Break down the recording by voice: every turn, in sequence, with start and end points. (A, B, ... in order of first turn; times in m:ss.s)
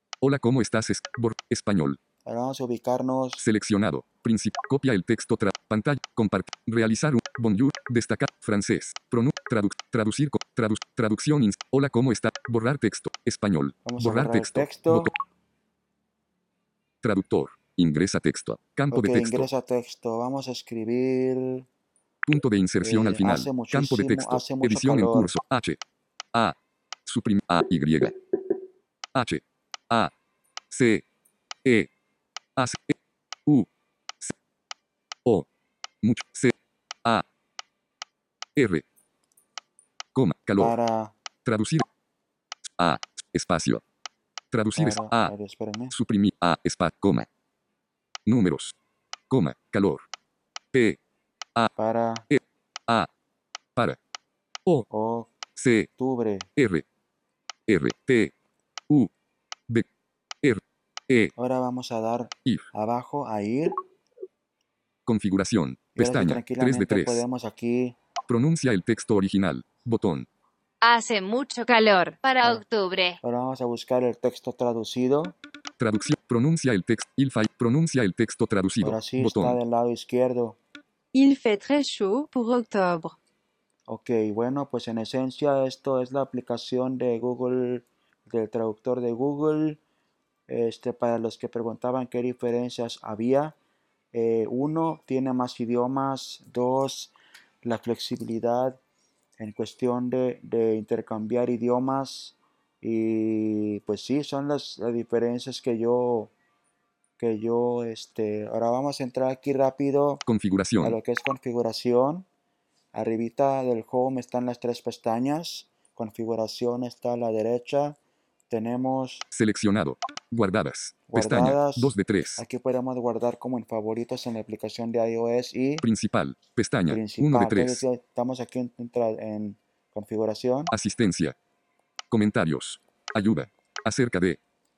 0:00.2-0:02.0 A
0:02.2-0:03.4 B
0:03.4-0:15.1 A
0:13.8-0:15.1 B
0:17.0-0:19.5 A
0:18.9-0:21.7 B
0:22.2-0:25.8 A
0:22.8-0:25.3 B
0:26.3-0:28.2 A
0:29.2-0:30.1 A
0:30.7-0:31.0 A
0:32.6-0:33.7 A
0:36.0-0:37.3 A
0:38.6-0:38.8 A
0:40.2-0:40.8 A
0:40.6-0:41.1 B
0:41.4-0:41.8 A
0:42.8-0:43.8 A
0:44.5-0:45.3 A
0:44.8-0:46.0 B
0:45.9-0:47.3 A
0:48.3-0:48.8 A
0:49.3-0:50.0 A
0:50.7-0:51.0 A
0:51.8-0:52.3 B
0:52.3-0:53.1 A
0:54.9-0:55.3 B
0:55.6-0:55.9 A
0:56.0-0:56.5 B
0:56.6-0:56.8 A
0:57.7-0:58.3 A
1:00.4-1:01.3 A
1:01.4-1:03.8 B
1:05.1-1:07.2 A
1:06.0-1:08.0 B
1:08.3-1:10.3 A
1:10.8-1:13.2 C
1:13.2-1:15.4 B
1:15.8-1:19.6 A
1:18.8-1:20.6 B
1:21.1-1:23.2 D
1:23.9-1:29.8 B
1:30.5-1:33.6 B
1:34.1-1:38.8 B
1:39.4-1:46.3 B
1:47.2-1:50.2 B
1:50.2-1:51.0 A
1:50.8-1:52.3 B
1:52.9-1:58.0 B
1:58.5-1:59.3 B
1:59.3-2:02.4 A
2:01.1-2:05.9 B
2:05.8-2:07.8 A
2:06.9-2:10.7 B
2:10.7-2:11.4 A
2:12.1-2:14.4 A